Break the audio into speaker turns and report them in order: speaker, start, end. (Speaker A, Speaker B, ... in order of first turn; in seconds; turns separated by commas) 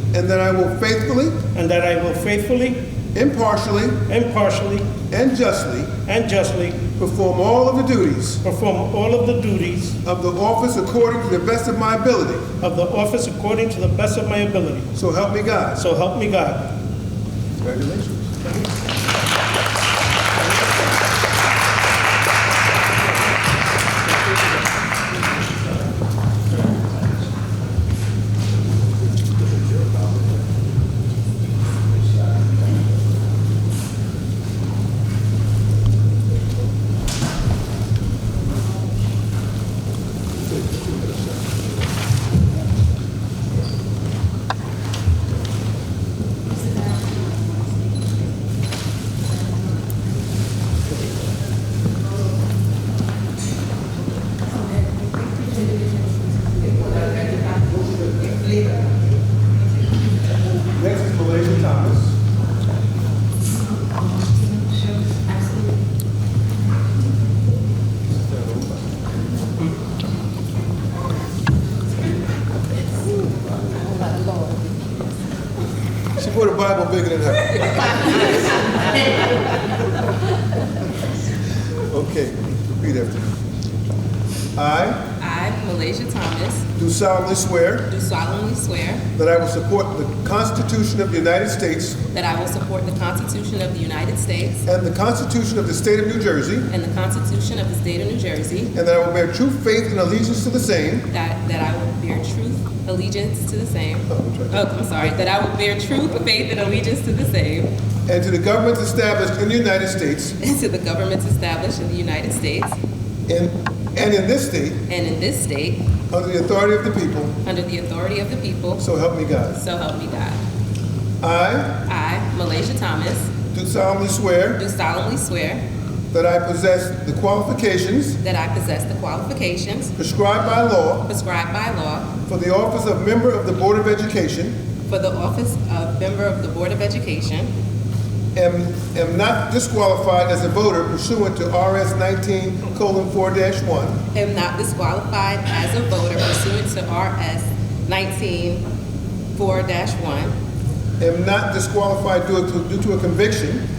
Speaker A: 0.1-1.4, Speaker B: 1.5-2.8, Speaker A: 3.1-4.0, Speaker B: 4.1-4.9, Speaker A: 5.1-6.0, Speaker B: 6.0-6.9, Speaker A: 7.0-8.4, Speaker B: 8.4-10.0, Speaker A: 10.0-12.5, Speaker B: 12.6-14.9, Speaker A: 14.9-15.8, Speaker B: 15.8-16.7, Speaker A: 17.6-18.5, Speaker A: 60.7-62.2, Speaker A: 68.1-68.8, Speaker A: 76.2-78.3, Speaker A: 81.9-83.3, Speaker A: 84.6-85.0, Speaker C: 85.2-86.7, Speaker A: 86.8-87.9, Speaker C: 87.9-89.1, Speaker A: 89.2-92.0, Speaker C: 92.1-94.7, Speaker A: 94.7-96.7, Speaker C: 96.7-98.7, Speaker A: 98.7-101.1, Speaker C: 101.1-107.7, Speaker A: 104.1-104.7, Speaker A: 108.1-110.4, Speaker C: 110.4-112.8, Speaker A: 113.3-114.8, Speaker C: 114.9-115.8, Speaker A: 116.1-117.4, Speaker C: 117.4-118.8, Speaker A: 118.8-119.6, Speaker C: 119.5-120.4, Speaker A: 121.2-121.8, Speaker C: 121.8-123.3, Speaker A: 123.5-124.6, Speaker C: 124.6-125.6, Speaker A: 126.1-128.2, Speaker C: 128.2-129.9, Speaker A: 130.0-131.1, Speaker C: 131.1-132.2, Speaker A: 132.3-134.6, Speaker C: 134.9-137.5, Speaker A: 138.3-144.0, Speaker C: 144.1-148.7, Speaker C: 149.3-150.3, Speaker A: 151.0-153.6